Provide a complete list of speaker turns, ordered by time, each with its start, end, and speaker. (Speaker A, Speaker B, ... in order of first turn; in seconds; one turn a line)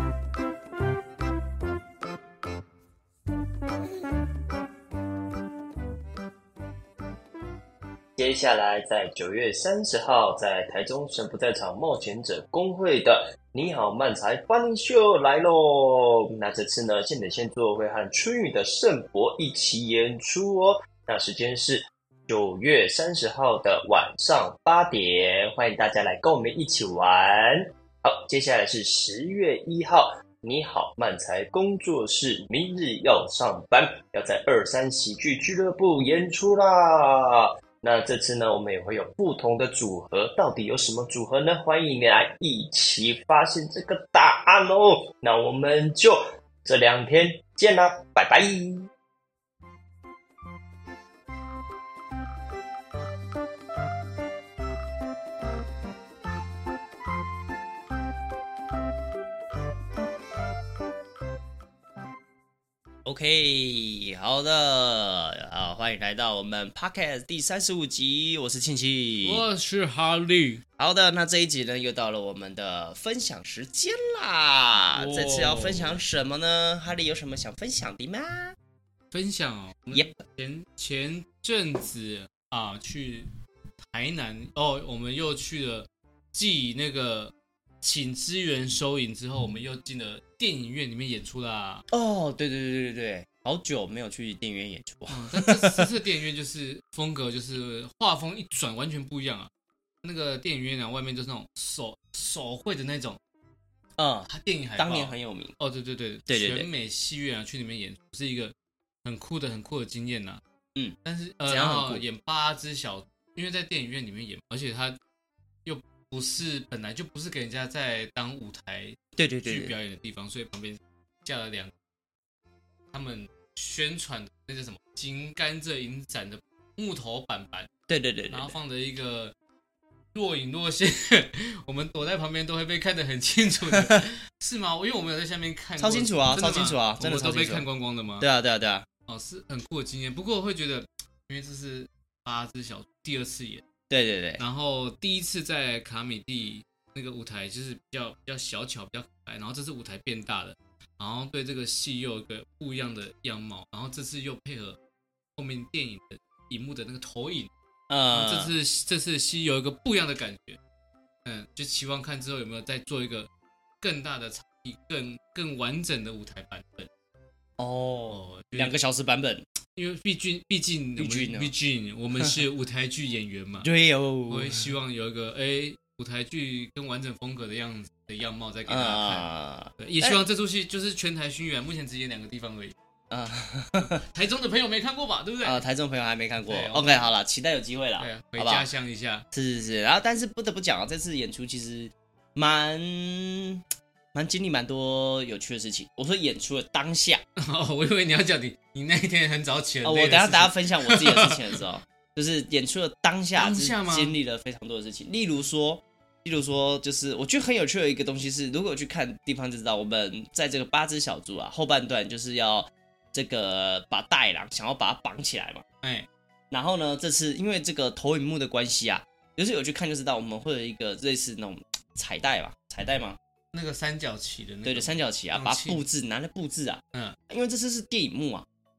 Speaker A: 8.2-48.9
Speaker B: 63.0-69.4
Speaker C: 69.2-70.6
Speaker B: 70.8-78.5
Speaker C: 74.9-76.0
Speaker C: 79.1-83.3
Speaker C: 83.8-91.8
Speaker B: 91.9-95.9
Speaker C: 95.1-99.5
Speaker C: 100.0-103.2
Speaker B: 104.0-105.5
Speaker C: 104.3-110.4
Speaker B: 106.3-106.7
Speaker C: 111.0-115.0
Speaker B: 111.5-112.0
Speaker C: 115.6-121.7
Speaker B: 119.2-119.8
Speaker C: 122.9-127.7
Speaker B: 127.9-128.5
Speaker C: 128.3-129.3
Speaker C: 130.1-138.3
Speaker B: 133.7-134.0
Speaker B: 135.8-137.7
Speaker B: 138.2-138.8
Speaker C: 139.1-143.7
Speaker B: 143.9-144.4
Speaker C: 144.4-154.8
Speaker C: 155.3-157.5
Speaker B: 157.9-158.5
Speaker C: 158.1-160.6
Speaker C: 161.2-163.3
Speaker C: 163.8-166.9
Speaker B: 167.6-169.4
Speaker C: 168.1-168.8
Speaker C: 169.7-173.7
Speaker B: 171.0-171.5
Speaker B: 173.6-174.7
Speaker C: 174.3-182.7
Speaker B: 178.7-180.2
Speaker B: 183.1-184.0
Speaker C: 184.1-185.6
Speaker B: 185.4-188.7
Speaker C: 186.4-187.1
Speaker C: 188.0-189.2
Speaker B: 189.3-197.2
Speaker C: 197.4-201.6
Speaker B: 199.8-215.6
Speaker C: 203.3-204.2
Speaker C: 215.8-216.1
Speaker B: 216.5-223.2
Speaker C: 223.5-225.8
Speaker B: 224.6-228.4